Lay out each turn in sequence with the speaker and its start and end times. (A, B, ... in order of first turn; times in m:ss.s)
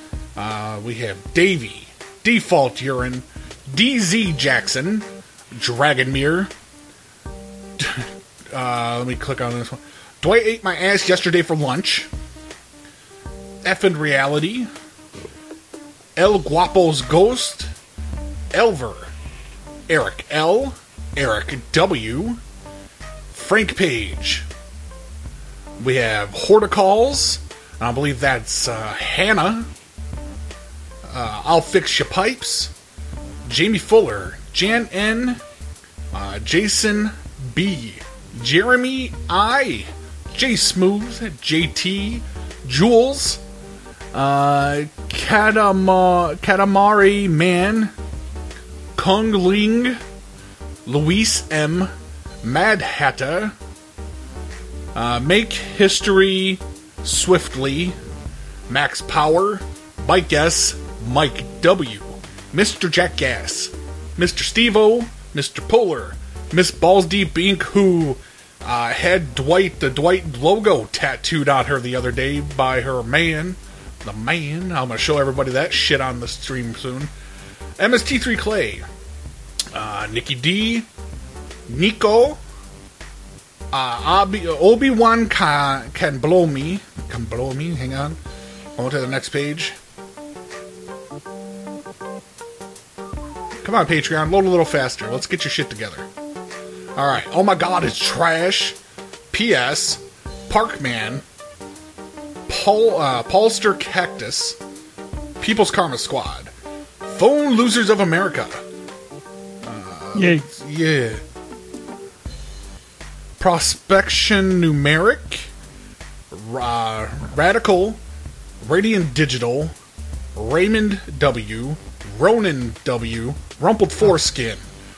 0:00.4-0:06.5 A
0:07.8-0:12.1 A
0:13.6-0:14.7 A
0:16.2-0:17.7 A
0:18.5-0:19.1 A
0:19.9-0:22.4 A
0:23.3-0:24.4 A
0:25.8-0:29.7 A
0:31.0-0:32.7 A
0:33.4-0:35.4 A
0:36.1-0:43.4 A
0:44.1-0:47.9 A
0:49.0-0:50.0 A
0:50.8-0:51.9 A
0:52.4-0:53.5 A
0:54.9-0:58.0 A
0:58.7-1:17.1 A
1:17.8-1:18.8 A
1:19.7-1:20.9 A
1:21.7-1:22.4 A
1:23.7-1:28.2 A
1:28.8-1:29.7 A
1:33.6-1:36.1 A
1:37.0-1:38.8 A
1:39.3-1:41.2 A
1:42.5-1:44.6 A
1:45.4-1:46.5 A
1:47.0-1:48.6 A
1:49.6-1:51.2 A
1:53.4-1:55.5 A
1:56.3-1:58.0 A
1:58.6-1:59.7 A
2:00.4-2:04.6 A